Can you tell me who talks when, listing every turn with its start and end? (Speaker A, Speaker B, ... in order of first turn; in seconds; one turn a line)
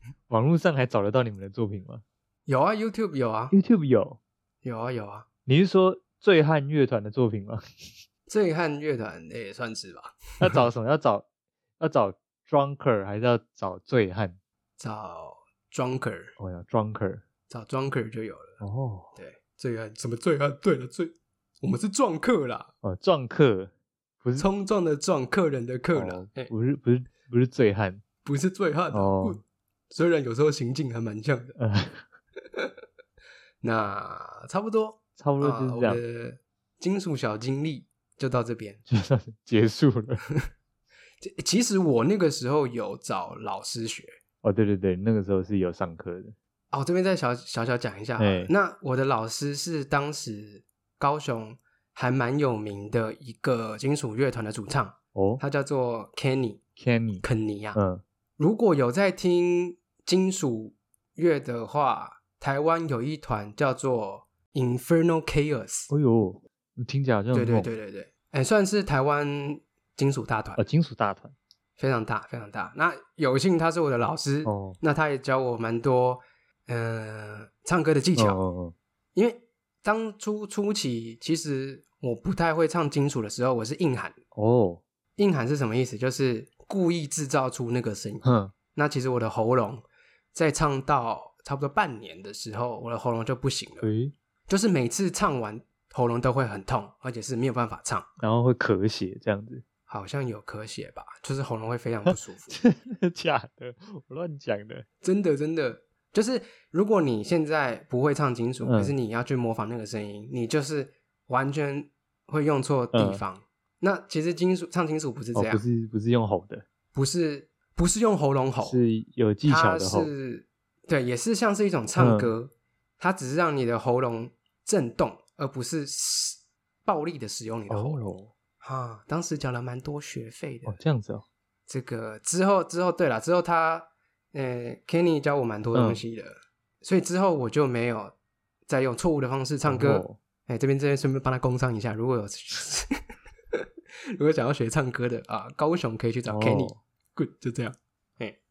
Speaker A: 0.3-2.0
Speaker B: 2.5-3.5
Speaker A: 3.5-4.2
Speaker B: 4.6-5.3
Speaker A: 5.5-7.9
Speaker B: 8.3-10.6
Speaker A: 10.4-11.3
Speaker A: 11.8-14.4
Speaker B: 14.8-16.3
Speaker A: 16.4-17.2
Speaker B: 17.5-18.6
Speaker A: 18.6-19.1
Speaker B: 19.1-22.7
Speaker A: 22.8-23.7
Speaker B: 24.4-26.5
Speaker A: 25.9-28.0
Speaker B: 28.2-29.4
Speaker A: 28.9-29.4
Speaker B: 29.9-31.6
Speaker A: 31.6-32.0
Speaker B: 33.6-38.9
Speaker A: 35.2-36.0
Speaker A: 38.9-40.2
Speaker B: 41.2-44.2
Speaker A: 44.4-46.4
Speaker B: 46.7-56.6
Speaker A: 48.2-48.5
Speaker A: 55.1-55.4
Speaker A: 56.8-57.2
Speaker B: 57.2-57.8
Speaker A: 57.8-58.0
Speaker B: 58.4-65.9
Speaker A: 65.9-67.7
Speaker B: 67.3-70.6
Speaker A: 70.6-71.3
Speaker B: 71.8-78.4
Speaker A: 74.5-74.8
Speaker A: 78.2-78.8
Speaker B: 79.2-84.2
Speaker A: 84.3-84.8
Speaker B: 85.2-93.9
Speaker A: 88.2-88.5
Speaker A: 93.8-94.1
Speaker B: 94.5-98.1
Speaker A: 98.2-99.6
Speaker B: 99.9-102.6
Speaker A: 102.1-104.9
Speaker B: 105.0-115.7
Speaker A: 108.6-108.9
Speaker A: 112.9-113.2
Speaker A: 115.3-116.7
Speaker B: 116.9-118.8
Speaker A: 118.6-120.1
Speaker B: 119.5-130.8
Speaker A: 122.0-122.3
Speaker A: 127.7-128.3
Speaker A: 130.7-131.2
Speaker B: 131.7-138.1
Speaker A: 135.7-136.0
Speaker B: 138.7-143.0
Speaker A: 139.7-140.2
Speaker B: 144.2-148.4
Speaker A: 146.3-146.8